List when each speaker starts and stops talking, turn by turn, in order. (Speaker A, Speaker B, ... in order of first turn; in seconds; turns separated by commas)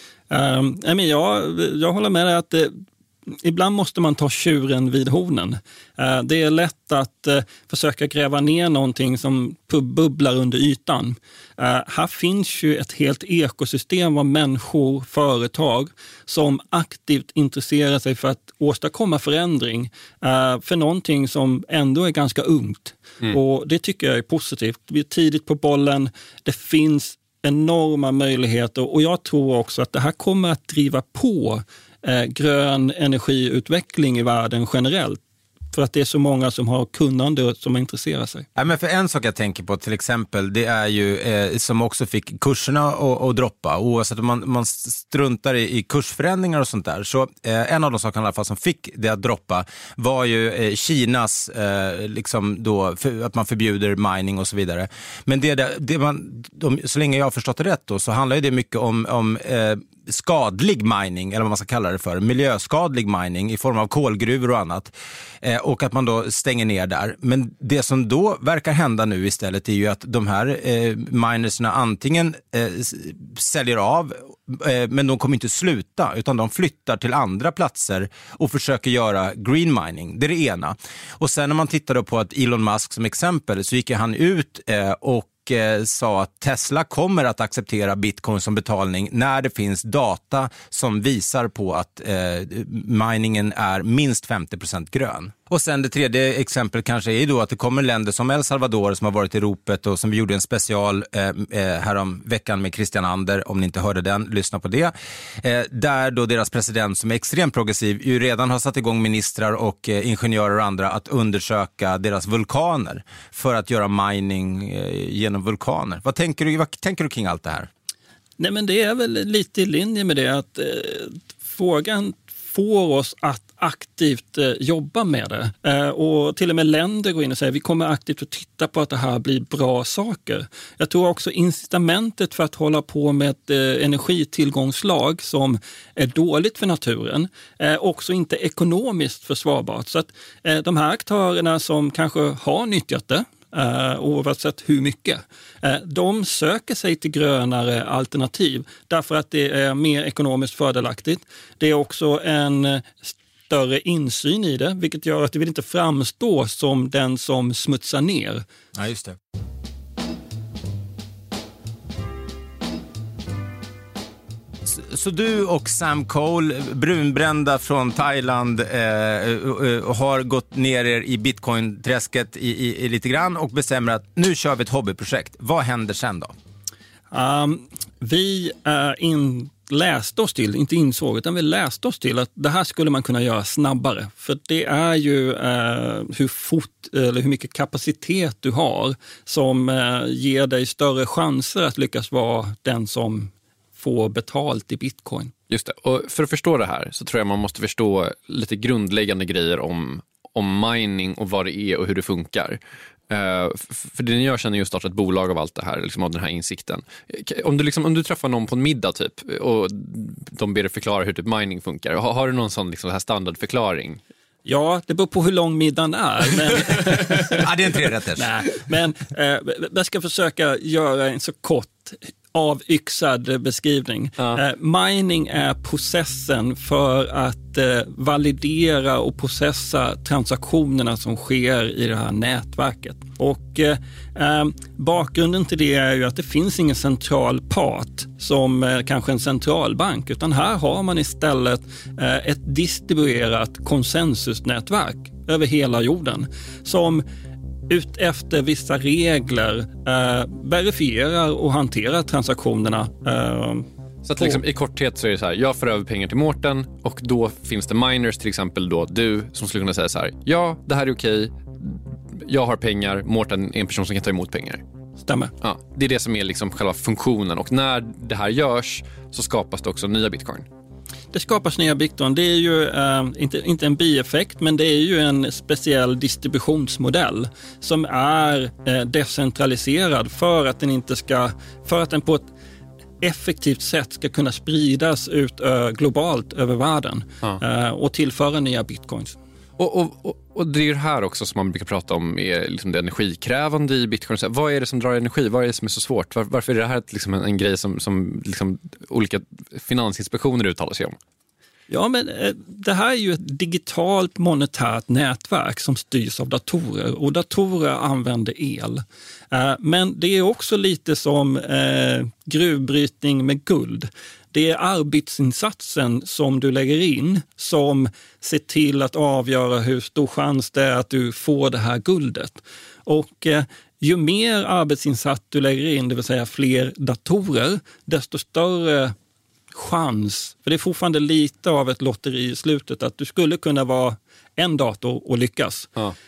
Speaker A: 0.3-35.2, Speaker A: 35.7-38.5, Speaker B: 38.5-117.7, Speaker A: 118.4-158.4, Speaker B: 158.7-159.2, Speaker B: 164.6-176.3, Speaker A: 177.1-195.3, Speaker C: 195.5-214.0, Speaker A: 214.4-217.4, Speaker B: 217.3-218.3, Speaker A: 218.2-247.0, Speaker A: 247.7-254.4, Speaker C: 254.0-264.6, Speaker A: 265.0-265.3, Speaker C: 265.4-270.5, Speaker A: 271.1-282.3, Speaker A: 283.0-289.2, Speaker C: 289.6-301.0, Speaker A: 301.7-328.9, Speaker A: 329.5-335.7